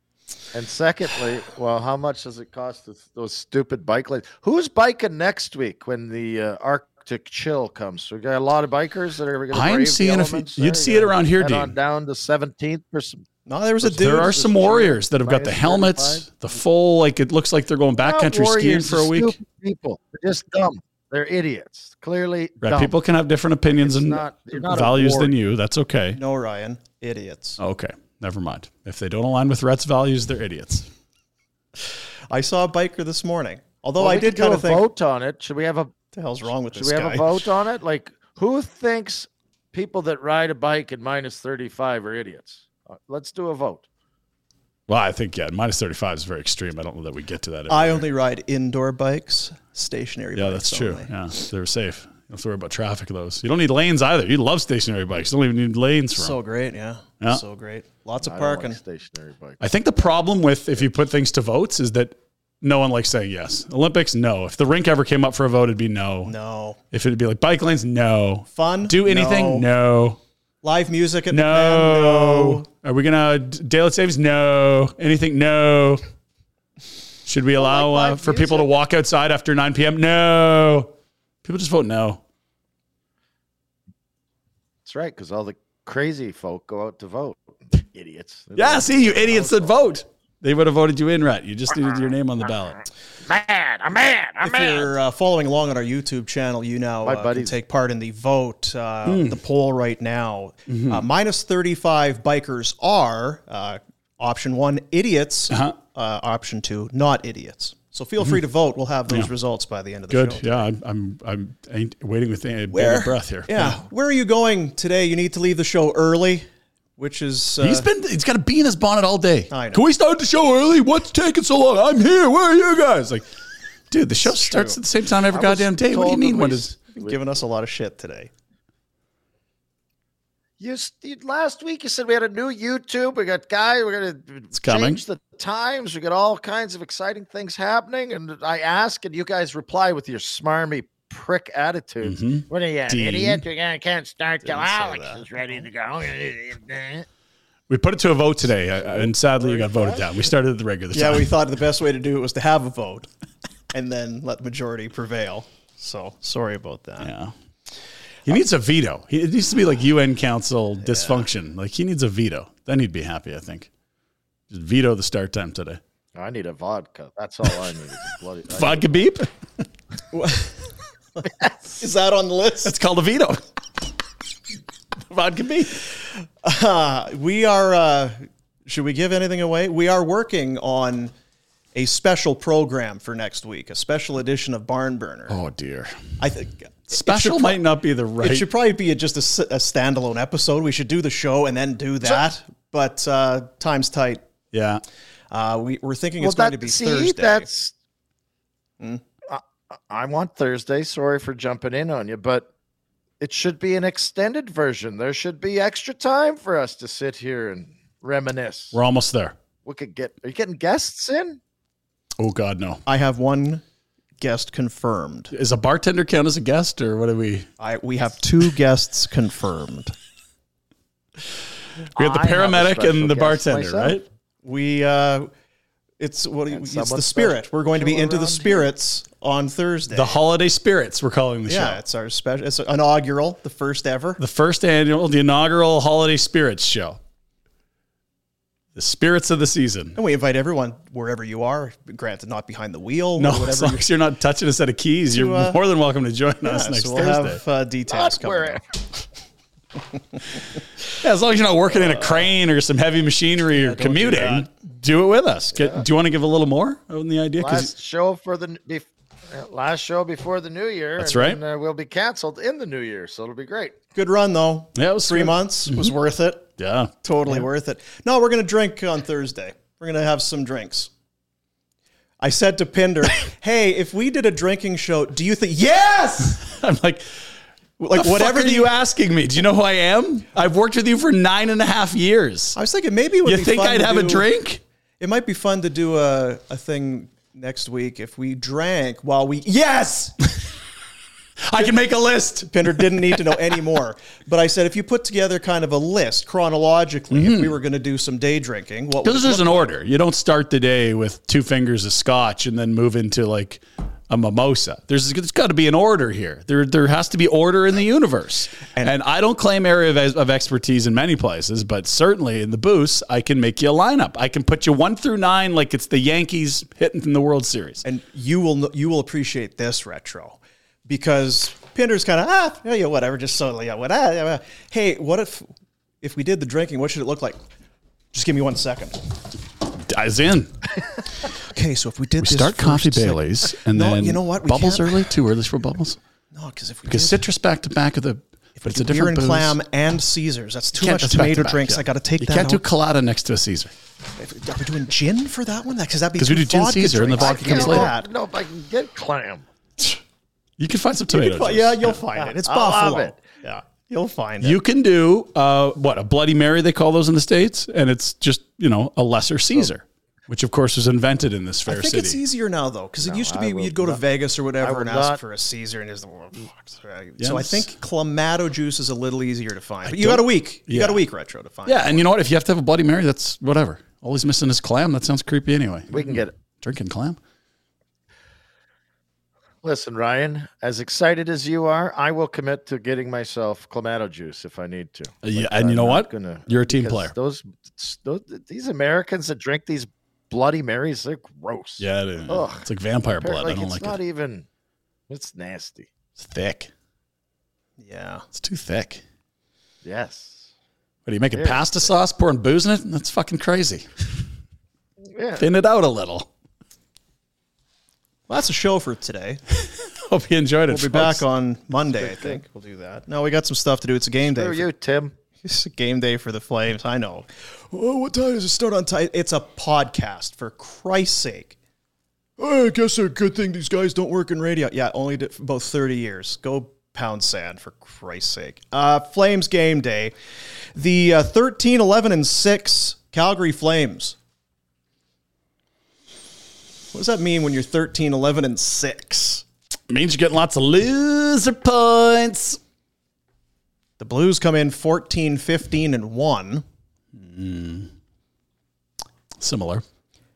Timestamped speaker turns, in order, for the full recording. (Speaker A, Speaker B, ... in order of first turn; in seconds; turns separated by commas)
Speaker A: 0.5-13.2, Speaker B: 9.5-11.7, Speaker C: 13.4-14.6, Speaker B: 13.8-19.4, Speaker A: 14.1-16.3, Speaker A: 18.0-22.9, Speaker B: 22.6-26.2, Speaker A: 23.7-25.3, Speaker C: 26.1-27.6, Speaker B: 27.6-30.9, Speaker C: 32.3-34.8, Speaker A: 34.0-35.9, Speaker C: 36.1-37.5, Speaker A: 36.7-43.8, Speaker B: 44.9-48.0, Speaker C: 47.7-51.1, Speaker B: 50.3-56.4, Speaker C: 56.1-58.8, Speaker A: 58.2-60.1, Speaker B: 59.6-66.3, Speaker C: 66.2-66.8, Speaker B: 66.9-70.2, Speaker C: 68.5-69.7, Speaker C: 70.6-72.7, Speaker B: 71.3-76.0, Speaker B: 77.2-80.9, Speaker A: 77.6-78.7, Speaker B: 81.4-82.2, Speaker A: 84.8-89.7, Speaker B: 88.5-92.8, Speaker A: 93.2-94.9, Speaker C: 94.4-110.6, Speaker A: 97.0-97.5, Speaker B: 99.0-99.4, Speaker B: 100.7-101.0, Speaker B: 105.5-105.8, Speaker B: 110.1-113.8, Speaker C: 112.7-116.5, Speaker C: 117.0-117.8, Speaker B: 117.6-123.2, Speaker C: 119.5-119.8, Speaker B: 123.9-126.7, Speaker C: 124.2-124.8, Speaker A: 125.3-127.1, Speaker C: 126.9-128.3, Speaker A: 130.6-147.1, Speaker B: 134.5-135.0, Speaker B: 142.0-143.4, Speaker C: 144.4-145.6, Speaker B: 147.7-151.3, Speaker A: 148.9-150.2, Speaker C: 150.9-153.1, Speaker C: 153.7-157.1, Speaker B: 157.0-157.3, Speaker B: 158.2-163.7, Speaker C: 160.8-161.2, Speaker B: 164.5-165.8, Speaker A: 166.2-169.0, Speaker B: 168.5-169.3, Speaker C: 170.1-170.5, Speaker C: 171.8-172.7, Speaker B: 172.6-173.4, Speaker B: 175.1-175.8, Speaker C: 176.4-181.1, Speaker C: 181.7-185.4, Speaker B: 185.3-186.2, Speaker C: 186.2-187.6, Speaker B: 186.9-188.5, Speaker C: 188.2-194.2, Speaker B: 194.5-194.8, Speaker C: 195.3-197.5, Speaker A: 196.2-197.7, Speaker A: 199.3-202.5, Speaker A: 203.2-208.8, Speaker B: 208.7-209.4, Speaker A: 209.6-211.4, Speaker B: 212.2-212.8, Speaker C: 212.9-213.6, Speaker C: 214.2-215.3, Speaker B: 215.3-217.5, Speaker C: 217.6-219.9, Speaker A: 221.9-224.0, Speaker B: 221.9-224.1, Speaker C: 224.4-225.3, Speaker C: 226.0-230.2, Speaker A: 226.5-228.7, Speaker B: 229.9-231.8, Speaker C: 231.5-234.2, Speaker B: 234.2-237.0, Speaker B: 238.7-240.0, Speaker C: 239.9-243.8, Speaker B: 243.2-247.4, Speaker C: 245.1-245.6, Speaker C: 246.4-248.6, Speaker A: 247.9-248.7, Speaker B: 251.0-257.7, Speaker C: 251.7-252.2, Speaker C: 253.5-254.5, Speaker A: 255.5-255.8, Speaker A: 257.4-263.8, Speaker B: 261.0-261.4, Speaker C: 263.9-266.5, Speaker B: 264.7-265.9, Speaker B: 266.6-267.4, Speaker C: 267.0-270.9, Speaker C: 272.2-276.4, Speaker B: 276.3-277.1, Speaker C: 277.8-278.7, Speaker B: 277.9-282.6, Speaker C: 282.6-284.3, Speaker B: 283.2-284.6, Speaker C: 285.0-290.2, Speaker B: 291.4-293.5, Speaker C: 292.4-299.7, Speaker B: 297.1-297.6, Speaker B: 299.0-317.8, Speaker C: 317.8-325.5, Speaker C: 326.0-327.4, Speaker C: 328.1-329.0, Speaker B: 329.8-330.6, Speaker C: 331.5-335.1, Speaker B: 332.2-336.0, Speaker C: 336.3-337.2, Speaker B: 336.9-339.6, Speaker C: 338.6-342.6, Speaker B: 340.7-343.7, Speaker C: 344.2-348.1, Speaker B: 346.2-347.9, Speaker A: 347.2-349.4, Speaker B: 350.6-352.0, Speaker C: 351.1-354.6, Speaker A: 352.2-353.2, Speaker B: 354.4-362.2, Speaker C: 361.7-372.0, Speaker A: 363.0-364.0, Speaker A: 364.6-365.2, Speaker B: 367.2-367.7, Speaker B: 369.8-371.0, Speaker B: 371.6-377.2, Speaker A: 375.9-376.3, Speaker A: 379.6-392.6, Speaker B: 385.2-387.1, Speaker B: 391.8-394.0, Speaker A: 393.2-394.4, Speaker A: 395.1-395.9, Speaker B: 396.2-396.7, Speaker C: 397.8-398.2, Speaker B: 398.3-399.0, Speaker A: 399.8-400.5, Speaker B: 401.1-403.9, Speaker A: 401.3-401.9, Speaker A: 405.1-405.4, Speaker B: 405.4-406.3, Speaker C: 408.3-409.4, Speaker B: 409.6-411.2, Speaker C: 410.7-414.7, Speaker A: 411.9-412.4, Speaker A: 414.3-415.1, Speaker C: 415.4-421.6, Speaker C: 422.4-430.1, Speaker C: 430.7-434.1, Speaker C: 436.9-439.4, Speaker B: 439.9-442.6, Speaker C: 444.0-446.6, Speaker B: 447.1-447.9, Speaker B: 449.4-449.8